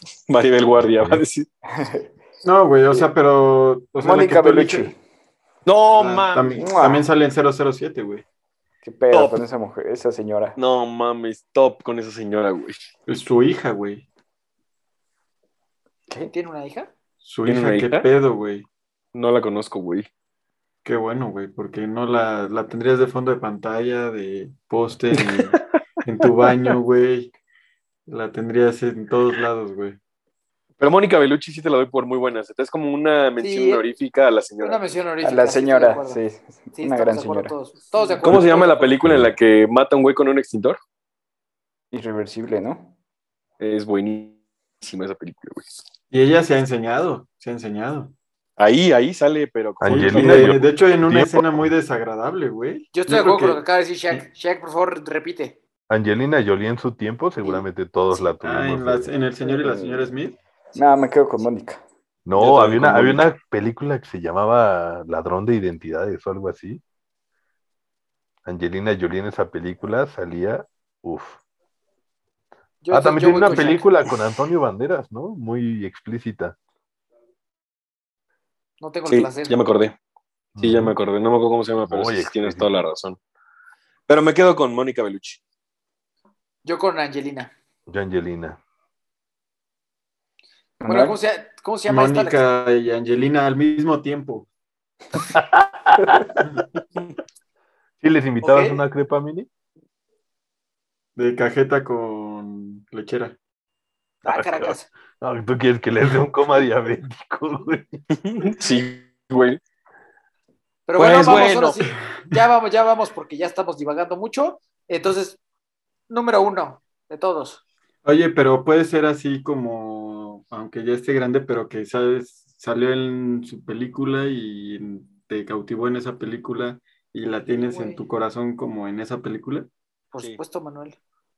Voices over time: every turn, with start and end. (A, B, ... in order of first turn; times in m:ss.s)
0:00.2-0:01.5 A
0:00.8-0:01.2 B
0:01.7-0:02.1 C
0:02.4-0:04.9 D
0:04.0-0:05.0 C
0:05.6-0:06.6 A
0:05.9-0:08.2 D
0:06.6-0:07.1 C
0:08.8-0:10.6 C
0:09.1-0:09.4 A
0:10.6-0:12.8 A
0:13.0-0:14.0 D
0:16.3-0:16.9 E
0:17.2-0:18.7 D
0:17.4-0:18.1 A
0:19.1-0:20.1 A
0:20.8-0:27.3 D
0:25.1-0:25.8 A
0:28.1-0:30.0 D
0:30.8-0:34.8 A
0:33.4-0:33.8 E
0:34.6-0:36.2 E
0:35.2-0:37.6 C
0:36.8-0:38.9 E
0:38.2-0:40.8 A
0:39.0-0:39.3 B
0:41.9-0:42.9 C
0:43.6-0:45.7 A
0:46.1-0:48.1 D
0:48.6-0:50.7 A
0:49.8-0:51.7 B
0:49.8-0:54.2 D
0:52.9-0:55.6 E
0:55.9-0:59.1 B
0:58.4-1:00.4 D
0:59.4-1:00.1 C
1:00.7-1:01.8 C
1:02.2-1:06.8 B
1:02.4-1:03.2 A
1:08.4-1:11.4 B
1:12.8-1:13.9 E
1:12.9-1:16.6 B
1:18.8-1:19.6 E
1:19.1-1:20.0 A
1:20.6-1:20.9 B
1:20.6-1:23.2 A
1:21.9-1:22.7 B
1:24.1-1:25.4 A
1:26.6-1:27.5 E
1:27.9-1:28.6 B
1:30.8-1:31.2 C
1:30.9-1:32.4 E
1:31.9-1:34.5 D
1:35.2-1:36.3 B
1:38.0-1:39.5 B
1:38.4-1:38.8 E
1:41.2-1:43.4 D
1:44.2-1:44.9 E
1:44.2-1:48.0 B
1:48.1-1:49.6 A
1:50.9-1:55.4 E
1:51.0-1:51.8 A
1:56.1-1:57.6 E
1:58.0-2:09.7 D
2:07.5-2:08.0 E
2:10.1-2:11.0 E